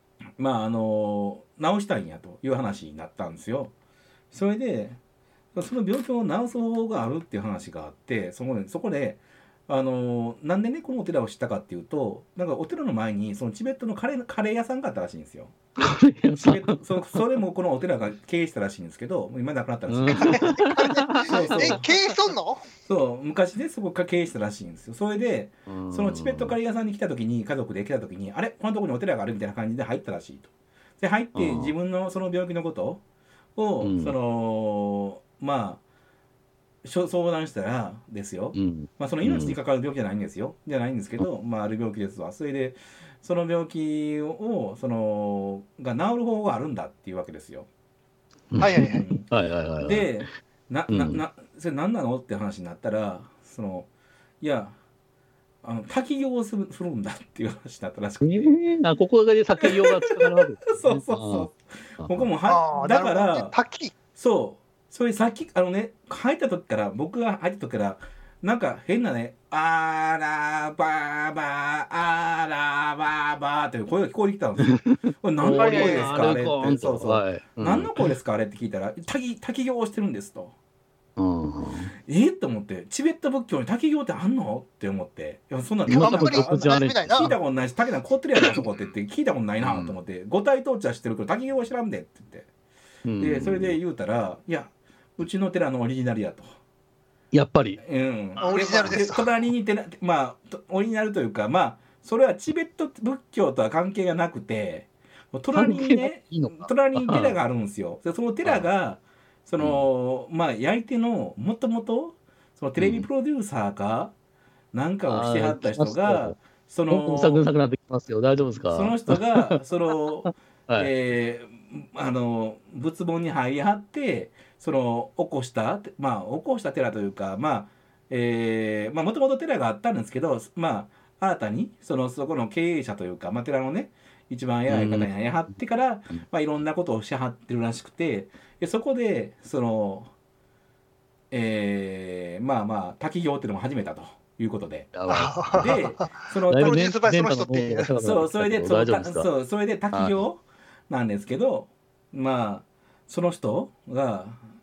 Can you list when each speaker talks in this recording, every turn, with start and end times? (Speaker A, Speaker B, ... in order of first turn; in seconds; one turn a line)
Speaker A: 0.4-3.7
Speaker A: 4.3-5.0
Speaker A: 5.5-15.5
Speaker B: 15.8-17.2
Speaker A: 16.4-20.6
Speaker B: 19.9-21.8
Speaker C: 20.1-22.6
Speaker A: 21.2-21.9
Speaker A: 22.8-33.0
Speaker B: 25.7-26.5
Speaker B: 31.3-31.7
Speaker A: 33.5-35.8
Speaker B: 33.8-34.1
Speaker A: 36.8-47.7
Speaker B: 38.5-39.6
Speaker B: 48.5-50.1
Speaker C: 48.6-49.1
Speaker A: 48.9-49.3
Speaker A: 49.8-53.9
Speaker B: 50.9-51.2
Speaker A: 54.4-54.8
Speaker A: 55.6-58.6
Speaker B: 58.2-61.5
Speaker A: 59.6-63.5
Speaker B: 62.0-62.3
Speaker C: 62.5-63.9
Speaker A: 64.1-80.5
Speaker B: 74.6-78.1
Speaker C: 75.4-76.2
Speaker B: 81.2-81.9
Speaker A: 82.1-92.5
Speaker B: 85.9-87.3
Speaker C: 85.9-87.3
Speaker B: 88.4-88.6
Speaker B: 89.6-89.9
Speaker B: 93.0-93.8
Speaker A: 93.2-96.5
Speaker B: 97.3-97.8
Speaker A: 97.8-114.1
Speaker C: 98.4-99.4
Speaker B: 105.5-107.4
Speaker B: 109.6-109.8
Speaker B: 112.8-113.1
Speaker A: 114.7-117.4
Speaker B: 115.1-116.4
Speaker B: 116.9-119.5
Speaker A: 118.7-140.1
Speaker B: 120.2-120.9
Speaker B: 134.7-135.1
Speaker A: 141.3-144.9
Speaker B: 144.9-145.8
Speaker C: 145.1-147.9
Speaker A: 145.5-146.9
Speaker B: 146.5-149.3
Speaker A: 148.0-154.4
Speaker B: 149.9-150.2